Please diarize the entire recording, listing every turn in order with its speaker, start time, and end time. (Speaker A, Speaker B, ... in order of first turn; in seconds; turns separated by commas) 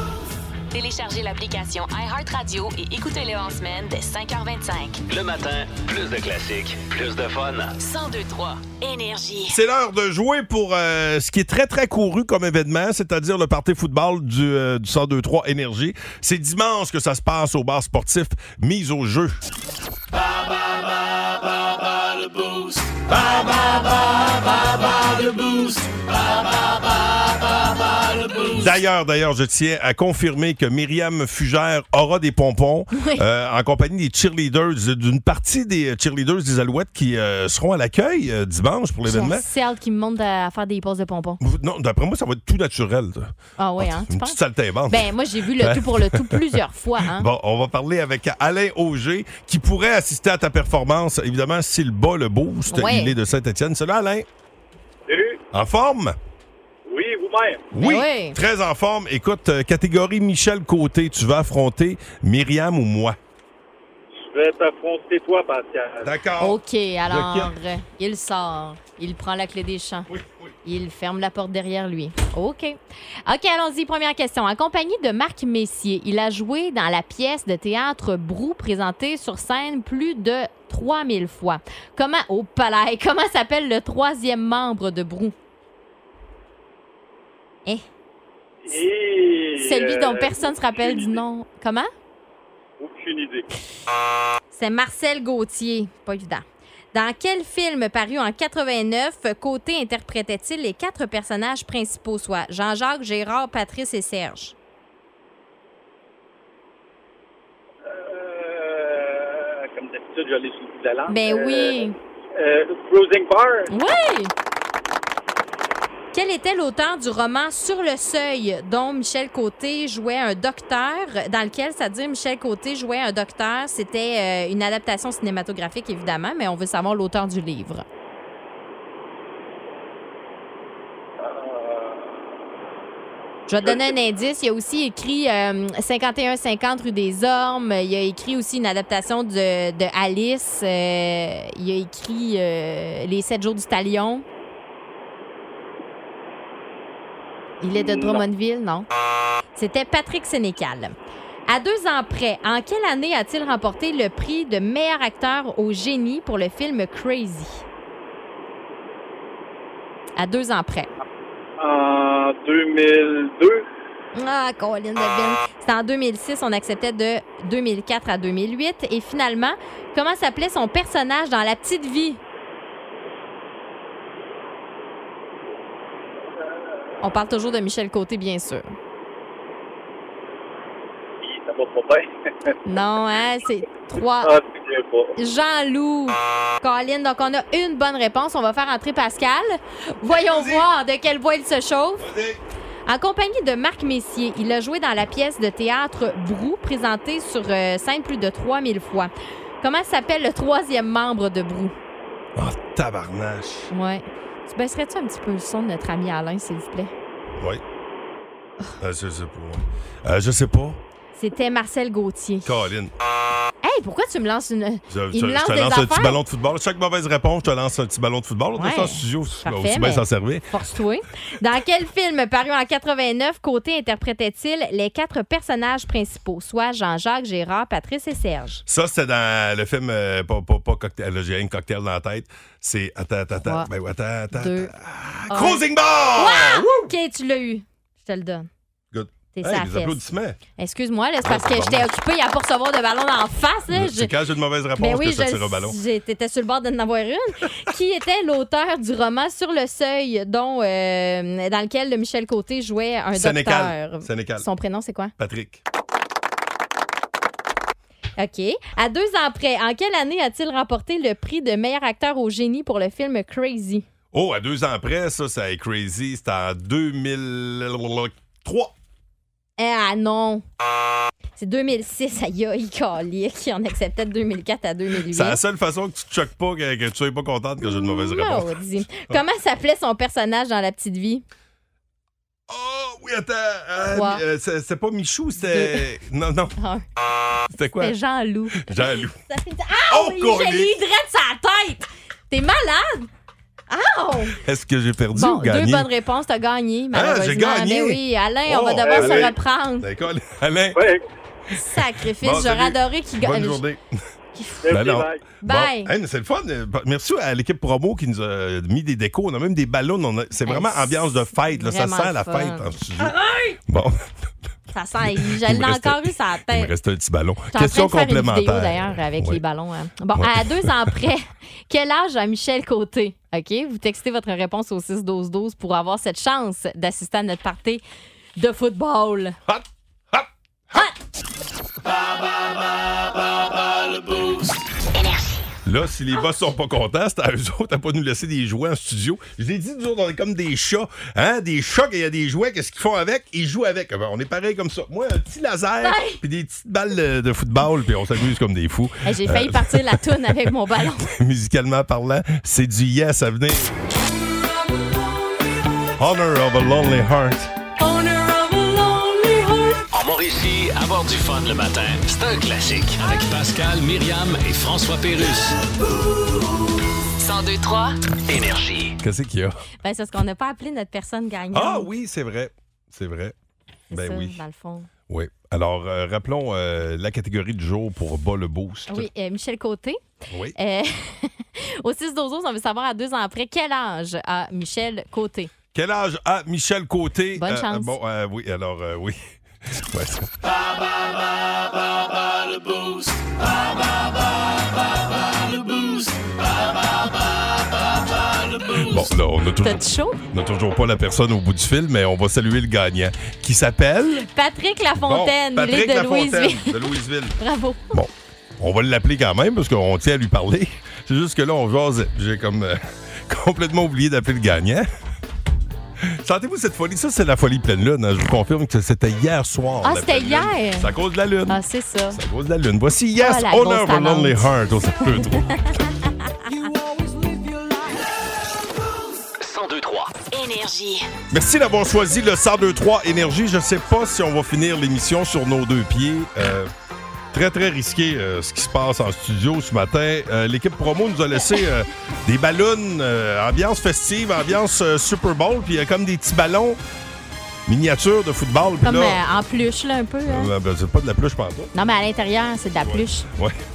Speaker A: 0.7-5.0, Speaker B: 5.1-7.8, Speaker A: 7.8-9.6, Speaker C: 9.5-19.4, Speaker C: 28.4-39.5, Speaker D: 32.9-33.2, Speaker D: 39.0-41.4, Speaker C: 41.4-54.3, Speaker D: 43.6-47.3, Speaker D: 52.7-53.1, Speaker E: 55.1-55.4, Speaker C: 55.5-56.2, Speaker E: 56.9-57.7, Speaker C: 57.7-63.2, Speaker D: 57.8-58.4, Speaker E: 64.2-66.1, Speaker C: 66.0-67.5, Speaker D: 66.4-70.1, Speaker C: 70.1-70.5, Speaker D: 70.7-85.3, Speaker E: 88.6-91.2, Speaker D: 89.6-91.9, Speaker E: 92.8-93.5, Speaker D: 94.5-104.5, Speaker E: 107.9-111.8, Speaker D: 111.1-112.0, Speaker E: 112.4-113.7, Speaker D: 113.7-114.3, Speaker D: 116.1-127.8, Speaker E: 131.2-132.1, Speaker D: 133.5-144.2, Speaker E: 133.6-133.9, Speaker D: 147.6-148.9, Speaker E: 147.7-148.2, Speaker D: 149.6-150.9, Speaker D: 151.5-157.7, Speaker D: 160.2-160.9, Speaker E: 161.6-163.7, Speaker D: 164.2-172.2, Speaker D: 177.0-178.7, Speaker E: 181.2-182.1, Speaker D: 182.7-184.3, Speaker E: 184.2-185.1, Speaker D: 185.2-192.1, Speaker C: 190.1-190.7, Speaker C: 192.0-192.4, Speaker D: 192.9-201.8, Speaker C: 202.4-203.7, Speaker D: 203.7-206.9, Speaker C: 208.8-210.8, Speaker D: 211.2-212.6, Speaker C: 212.4-212.9, Speaker D: 213.6-216.2, Speaker C: 214.9-220.5, Speaker D: 218.6-228.6, Speaker C: 228.7-236.9, Speaker D: 233.4-233.7, Speaker D: 234.3-234.7, Speaker D: 235.3-235.6, Speaker D: 236.2-238.5, Speaker C: 238.9-240.4, Speaker D: 239.3-240.0, Speaker D: 240.6-244.1, Speaker C: 241.2-241.9, Speaker C: 243.7-245.8, Speaker D: 244.8-255.1, Speaker C: 253.1-254.5, Speaker C: 255.2-255.6, Speaker D: 258.2-263.9, Speaker C: 264.1-268.7, Speaker D: 269.6-270.4, Speaker D: 271.4-275.4, Speaker C: 275.1-279.2, Speaker D: 277.6-281.2, Speaker C: 282.5-286.6, Speaker D: 283.9-284.2, Speaker D: 285.4-285.8, Speaker D: 286.6-286.8, Speaker C: 287.5-288.0, Speaker D: 287.8-293.1, Speaker C: 288.6-289.2, Speaker C: 289.9-290.7, Speaker D: 293.7-294.4, Speaker C: 294.4-295.9, Speaker D: 295.1-299.9, Speaker C: 296.9-300.8, Speaker E: 298.9-299.2, Speaker E: 300.8-301.0, Speaker D: 301.5-303.6, Speaker C: 302.1-303.8, Speaker D: 304.4-304.7, Speaker E: 304.6-305.2, Speaker C: 304.7-314.0, Speaker D: 305.4-305.9, Speaker D: 310.4-312.7, Speaker D: 314.7-316.7, Speaker C: 315.1-319.4, Speaker D: 317.5-327.8, Speaker C: 320.1-320.9, Speaker D: 328.4-329.4, Speaker C: 329.5-330.3, Speaker C: 335.7-350.3, Speaker D: 345.8-346.2, Speaker D: 349.1-351.1, Speaker C: 351.0-353.7, Speaker C: 356.0-357.5, Speaker B: 359.9-365.6, Speaker A: 367.2-368.0, Speaker B: 368.3-369.0, Speaker C: 369.0-369.6, Speaker D: 369.8-371.9, Speaker C: 371.5-373.3, Speaker D: 373.9-374.9, Speaker C: 373.9-374.4, Speaker C: 375.1-379.1, Speaker D: 378.9-380.0, Speaker C: 380.3-380.6, Speaker D: 380.6-385.5, Speaker C: 385.7-390.3, Speaker D: 387.4-387.9, Speaker C: 398.7-404.3, Speaker D: 399.6-400.2, Speaker D: 404.2-408.0, Speaker C: 405.0-407.4, Speaker C: 407.9-414.9, Speaker C: 416.2-421.6, Speaker D: 419.8-420.9, Speaker D: 421.5-422.2, Speaker C: 422.1-425.7, Speaker D: 423.2-424.5, Speaker B: 429.4-430.2, Speaker A: 430.2-431.1, Speaker C: 431.3-436.7, Speaker C: 437.3-446.8, Speaker C: 447.7-449.2, Speaker D: 448.8-450.5, Speaker C: 450.3-451.7, Speaker D: 451.7-453.3, Speaker C: 452.8-453.6